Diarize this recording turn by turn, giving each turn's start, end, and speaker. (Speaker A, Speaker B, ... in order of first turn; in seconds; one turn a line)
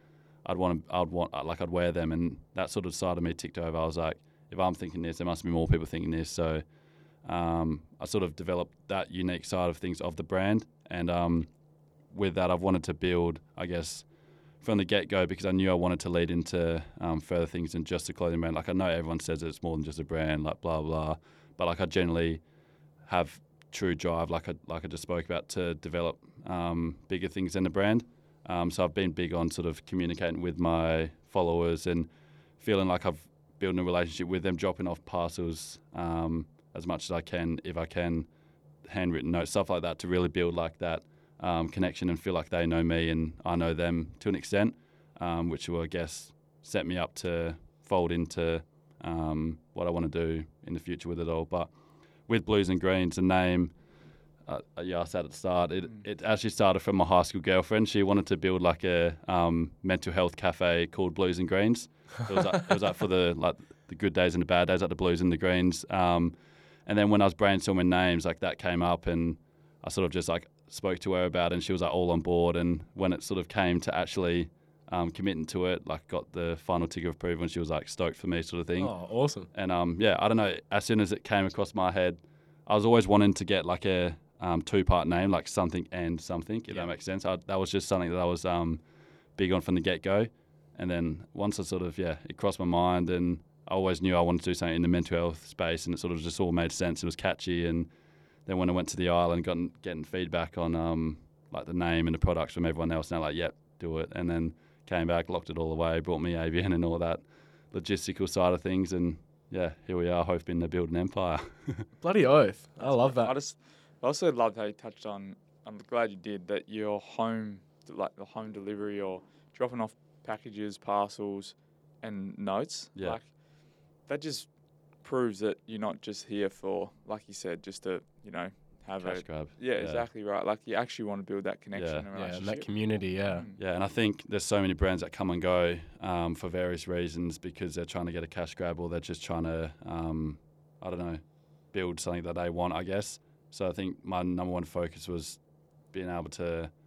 Speaker A: 0.5-6.6
Speaker A: 7.2-11.5
Speaker A: 12.1-14.1
Speaker A: 14.6-22.4
Speaker A: 23.1-38.3
Speaker A: 38.9-51.7
Speaker A: 52.3-53.7
Speaker A: 54.5-66.3
Speaker A: 66.9-78.9
Speaker B: 78.8-79.5
Speaker A: 79.5-88.8
Speaker A: 89.4-97.9
Speaker A: 98.5-111.9
Speaker B: 112.0-113.3
Speaker C: 112.8-123.4
Speaker C: 124.0-124.5
Speaker C: 125.0-132.7
Speaker A: 129.0-130.1
Speaker A: 131.7-132.1
Speaker B: 132.2-133.4
Speaker C: 133.2-133.6
Speaker A: 133.6-141.2
Speaker A: 141.7-145.4
Speaker A: 145.9-146.7